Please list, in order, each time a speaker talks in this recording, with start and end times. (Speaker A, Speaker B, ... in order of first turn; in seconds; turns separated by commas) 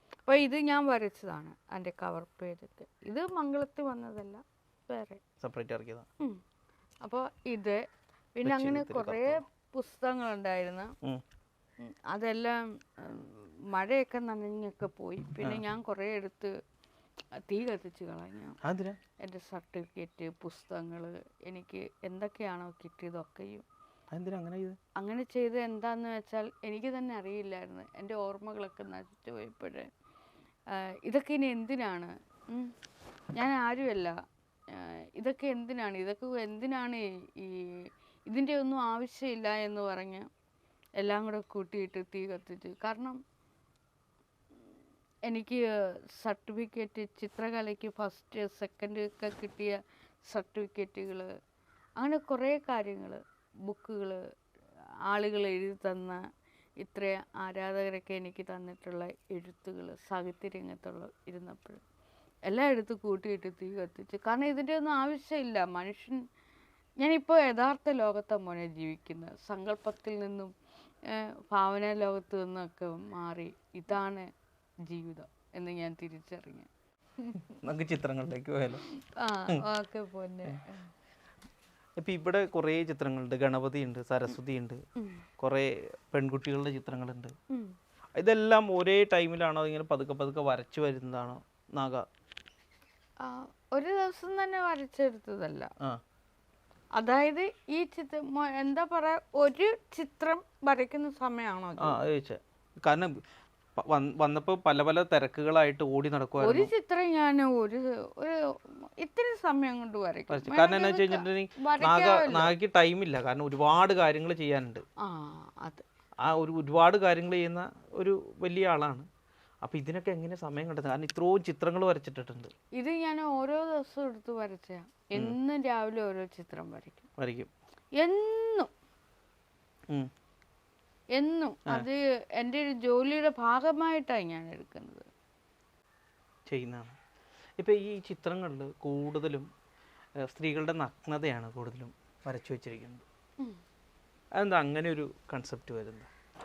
Speaker A: 0.3-5.2, Speaker B: 5.4-6.1, Speaker A: 7.0-7.8, Speaker A: 8.4-10.9, Speaker B: 8.4-9.4, Speaker A: 11.8-16.5, Speaker A: 17.5-18.6, Speaker B: 18.6-19.0, Speaker A: 19.2-23.6, Speaker B: 24.1-24.8, Speaker A: 25.0-29.9, Speaker A: 30.7-32.7, Speaker A: 33.4-34.2, Speaker A: 34.7-40.3, Speaker A: 41.0-43.2, Speaker A: 45.3-51.3, Speaker A: 52.0-54.2, Speaker A: 55.1-56.2, Speaker A: 56.8-61.8, Speaker A: 62.5-66.2, Speaker A: 67.0-70.5, Speaker A: 71.1-74.3, Speaker A: 74.8-76.7, Speaker A: 77.2-77.5, Speaker B: 77.6-78.8, Speaker A: 79.2-80.9, Speaker B: 82.0-84.8, Speaker A: 85.0-85.2, Speaker B: 85.4-87.3, Speaker A: 87.5-87.8, Speaker B: 88.2-92.1, Speaker A: 93.2-95.7, Speaker A: 97.0-102.0, Speaker B: 101.8-103.2, Speaker B: 103.8-106.7, Speaker A: 106.4-112.5, Speaker B: 110.3-114.8, Speaker A: 115.0-115.8, Speaker B: 116.2-119.1, Speaker B: 119.6-122.5, Speaker A: 122.8-127.1, Speaker B: 127.2-127.5, Speaker A: 128.0-128.7, Speaker A: 131.1-135.1, Speaker B: 136.5-137.0, Speaker B: 137.6-139.5, Speaker B: 140.2-143.1, Speaker B: 144.3-146.1